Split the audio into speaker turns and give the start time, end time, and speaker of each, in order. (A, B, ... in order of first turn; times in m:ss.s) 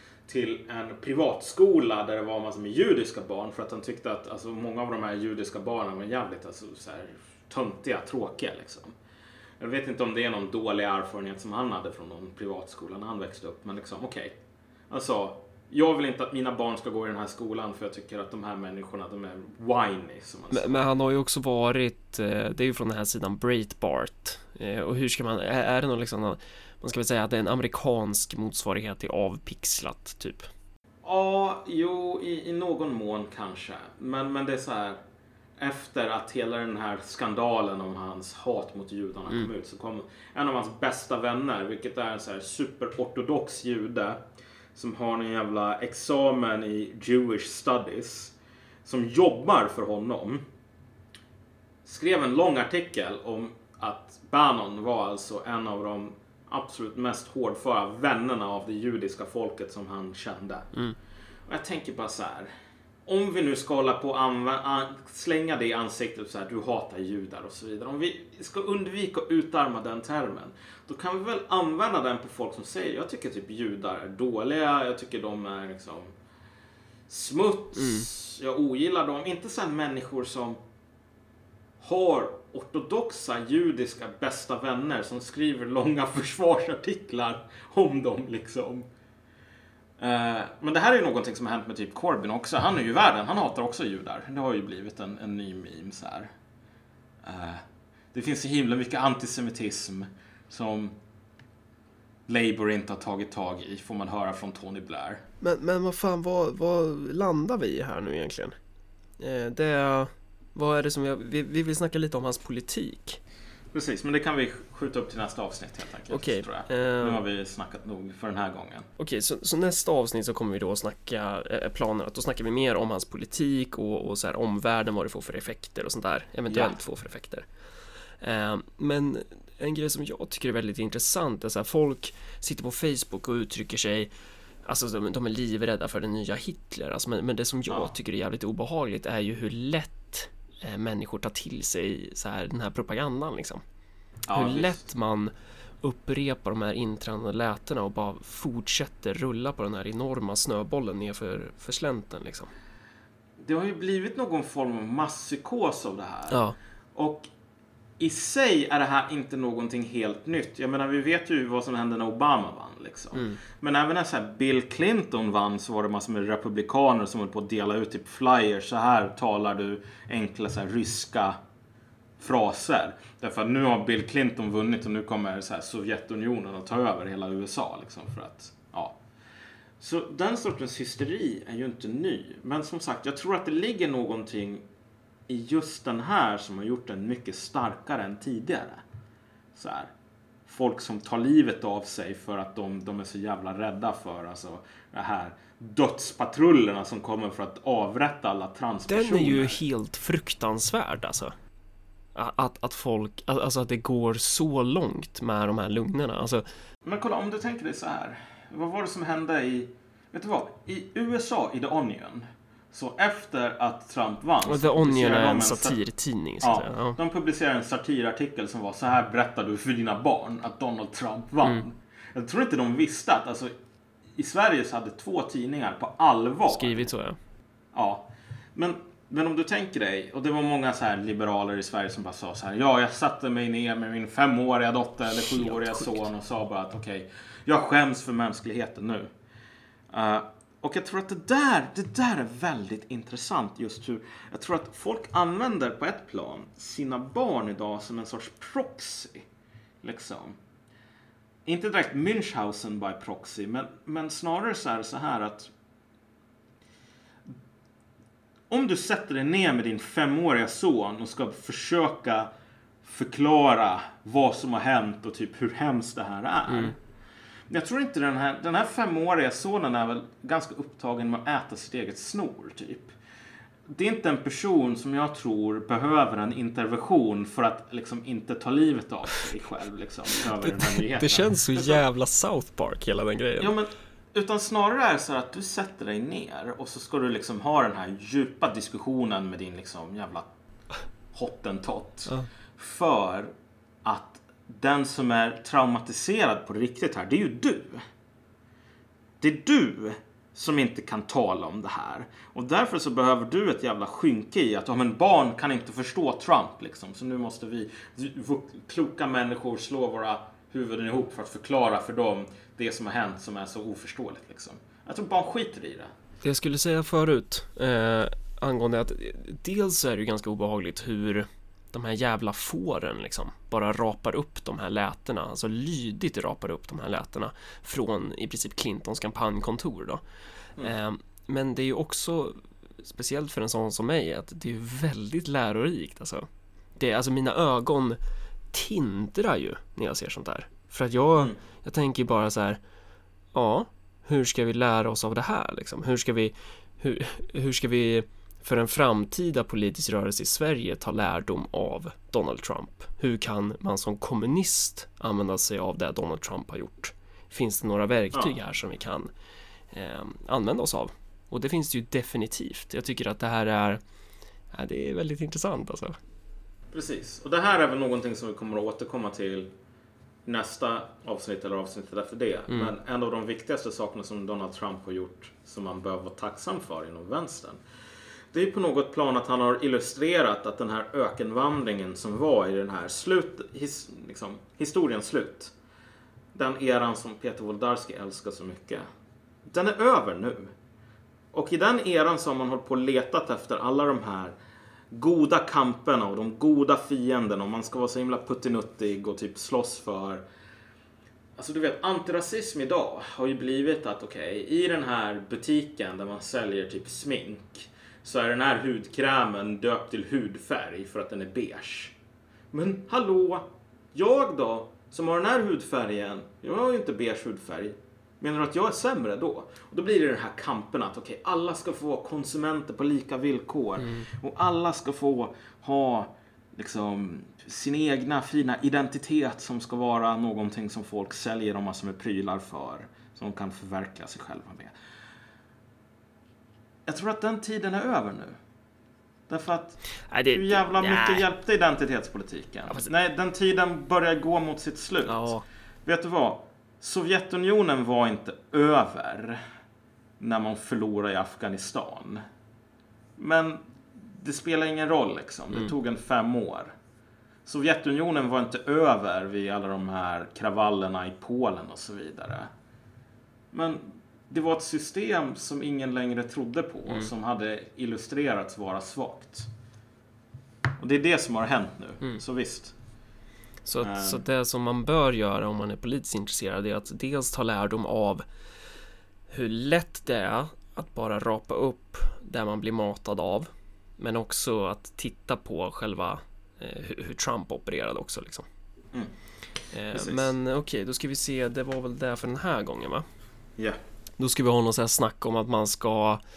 0:00.3-0:08.9 A
0:09.6-0:14.4 A
0:14.9-0:20.8 A
0:20.5-0:30.5 B
0:31.0-0:35.0 A
0:35.6-0:44.2 A
0:44.7-0:50.4 A
0:51.8-1:00.7 A
1:01.5-1:02.5 A
1:03.0-1:16.1 A
1:17.1-1:20.6 A
1:17.7-1:18.1 B
1:21.8-1:28.8 A
1:30.0-1:36.3 A
1:37.2-1:41.0 A
1:42.3-1:45.2 A
1:45.4-1:48.5 B
1:49.2-1:53.2 B
1:53.7-1:58.9 A
1:56.1-1:57.2 B
1:59.0-2:07.4 B
2:06.5-2:06.8 A
2:08.2-2:14.1 B
2:14.6-2:23.6 B
2:24.3-2:24.9 A
2:24.3-2:32.5 B
2:33.4-2:36.4 A
2:36.3-2:36.6 B
2:36.9-2:37.3 A
2:38.0-2:51.4 A
2:43.1-2:43.4 B
2:52.2-2:59.0 A
2:59.8-3:04.6 A
3:05.3-3:08.8 A
3:09.5-3:09.9 A
3:10.4-3:19.6 A
3:18.9-3:21.3 B
3:22.1-3:26.4 B
3:26.8-3:35.8 A
3:34.5-3:37.0 B
3:36.4-3:43.5 A
3:44.2-3:46.9 A
3:46.5-3:47.2 B
3:47.7-3:59.1 A
3:55.2-3:56.0 B
3:59.9-4:09.2 A
4:09.8-4:10.4 A
4:11.4-4:15.5 A
4:18.5-4:22.3 A
4:22.8-4:26.7 A
4:26.5-4:26.7 B
4:27.5-4:32.9 A
4:33.7-4:41.8 A
4:40.3-4:43.6 B
4:43.4-4:50.3 A
4:51.1-4:53.3 A
4:53.8-4:57.8 A
4:59.2-5:15.9 A
5:16.2-5:30.0 B
5:30.6-5:38.0 B
5:38.5-5:42.6 B
5:43.3-5:59.1 B
5:59.7-6:03.8 B
6:04.5-6:06.0 B
6:06.7-6:09.5 A
6:10.2-6:17.6 A
6:18.3-6:25.5 A
6:26.3-6:28.8 A
6:29.5-6:30.5 A
6:31.3-6:34.3 A
6:34.9-6:40.2 A
6:41.4-6:51.9 A
6:52.5-7:14.7 A
7:03.8-7:04.0 B
7:16.9-7:18.4 A
7:19.3-7:19.8 A
7:20.1-7:21.2 B
7:20.3-7:25.3 A
7:25.1-7:25.4 B
7:25.8-7:29.4 A
7:30.2-7:32.2 A
7:33.2-7:36.7 A
7:37.4-7:42.5 A
7:43.5-7:49.5 A
7:50.8-7:52.7 A
7:53.6-7:58.2 B
7:53.8-7:54.2 A
7:59.3-8:08.4 B
8:09.7-8:13.0 B
8:09.9-8:10.3 A
8:14.2-8:16.2 B